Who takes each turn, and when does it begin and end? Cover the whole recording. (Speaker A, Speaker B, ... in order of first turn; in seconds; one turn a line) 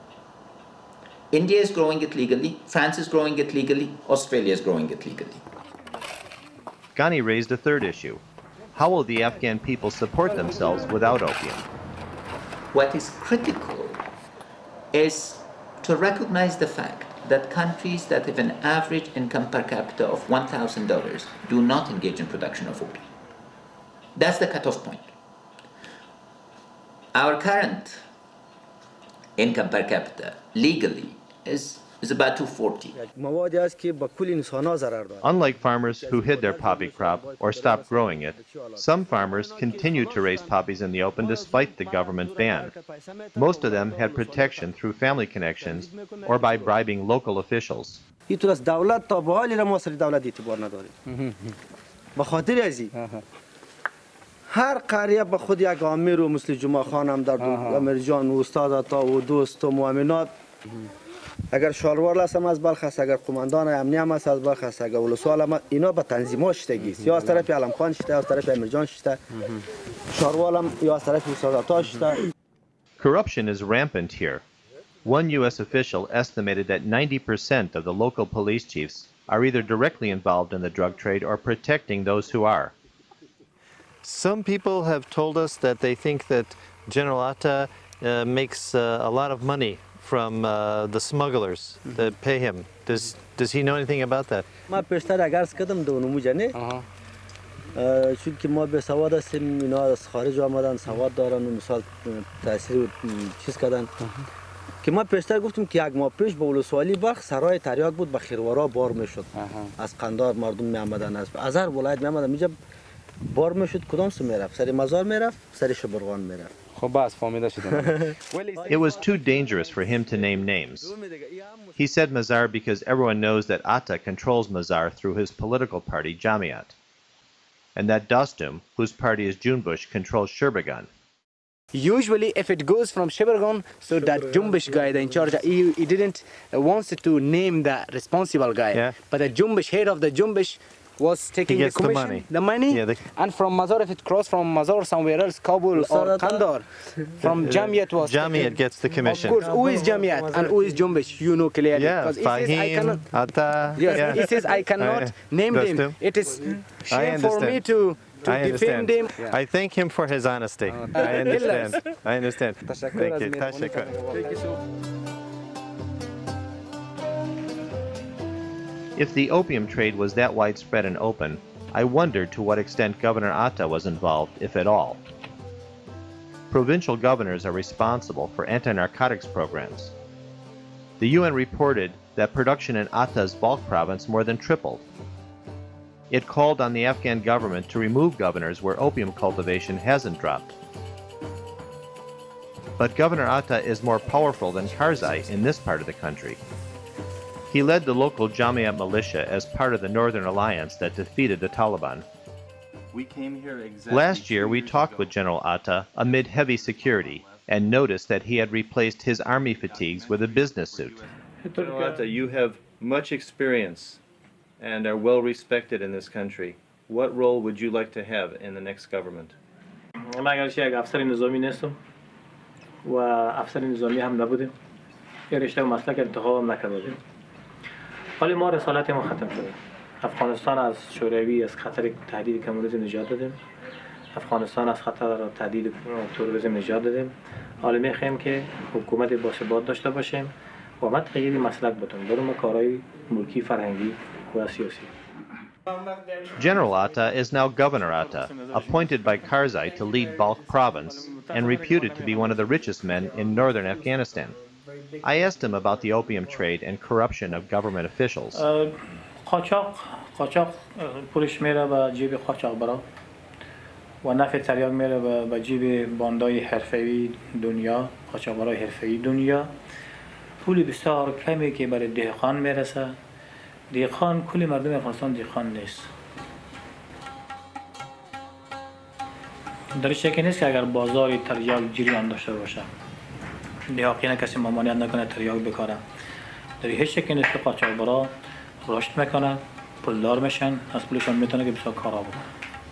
Speaker A: 1.3-5.4
Speaker B: 7.0-8.2
Speaker B: 8.7-11.6
Speaker A: 12.7-14.0
Speaker A: 14.9-23.0
Speaker A: 24.1-25.1
Speaker A: 27.1-28.0
Speaker A: 29.4-33.0
Speaker C: 33.0-35.3
Speaker B: 35.2-42.7
Speaker C: 35.9-40.6
Speaker C: 41.2-44.7
Speaker B: 43.3-48.0
Speaker C: 45.6-46.7
Speaker C: 48.3-50.9
Speaker D: 51.1-51.5
Speaker C: 52.1-52.9
Speaker D: 52.9-53.2
Speaker C: 54.5-60.3
Speaker D: 57.4-57.9
Speaker C: 61.5-69.2
Speaker D: 66.9-67.4
Speaker C: 70.1-72.2
Speaker B: 73.0-74.4
Speaker B: 75.0-82.7
Speaker E: 84.0-94.4
Speaker D: 91.9-92.1
Speaker C: 94.7-96.5
Speaker D: 96.5-96.8
Speaker C: 97.7-103.9
Speaker C: 104.8-112.5
Speaker D: 109.3-109.7
Speaker C: 113.3-116.5
Speaker D: 116.7-119.1
Speaker C: 118.5-119.2
Speaker B: 118.7-120.9
Speaker C: 120.8-121.8
Speaker B: 121.8-126.7
Speaker B: 127.8-130.9
Speaker D: 131.7-153.1
Speaker E: 141.4-143.0
Speaker C: 145.7-146.4
Speaker E: 147.2-149.4
Speaker C: 149.1-150.8
Speaker E: 151.7-156.0
Speaker D: 153.7-159.4
Speaker E: 156.9-157.6
Speaker E: 158.2-164.0
Speaker D: 160.7-162.0
Speaker D: 162.6-164.6
Speaker B: 168.9-175.0
Speaker B: 176.5-179.9
Speaker B: 181.0-184.8
Speaker B: 186.1-190.5
Speaker B: 192.8-196.4
Speaker B: 197.5-202.0
Speaker E: 202.9-205.1
Speaker B: 203.9-211.0
Speaker E: 206.6-207.5
Speaker E: 209.7-214.0
Speaker F: 211.4-212.1
Speaker E: 214.6-219.3
Speaker F: 220.0-221.8
Speaker F: 222.8-224.5
Speaker F: 225.3-227.0
Speaker F: 228.2-233.3
Speaker F: 234.1-244.9
Speaker B: 246.3-254.3
Speaker F: 247.8-249.3
Speaker F: 250.7-252.6
Speaker B: 255.0-258.4
Speaker F: 258.3-262.8
Speaker F: 264.0-269.5
Speaker F: 270.4-272.9
Speaker F: 273.7-275.9
Speaker F: 279.8-282.7
Speaker F: 283.7-285.8
Speaker F: 286.6-288.1
Speaker F: 288.6-292.2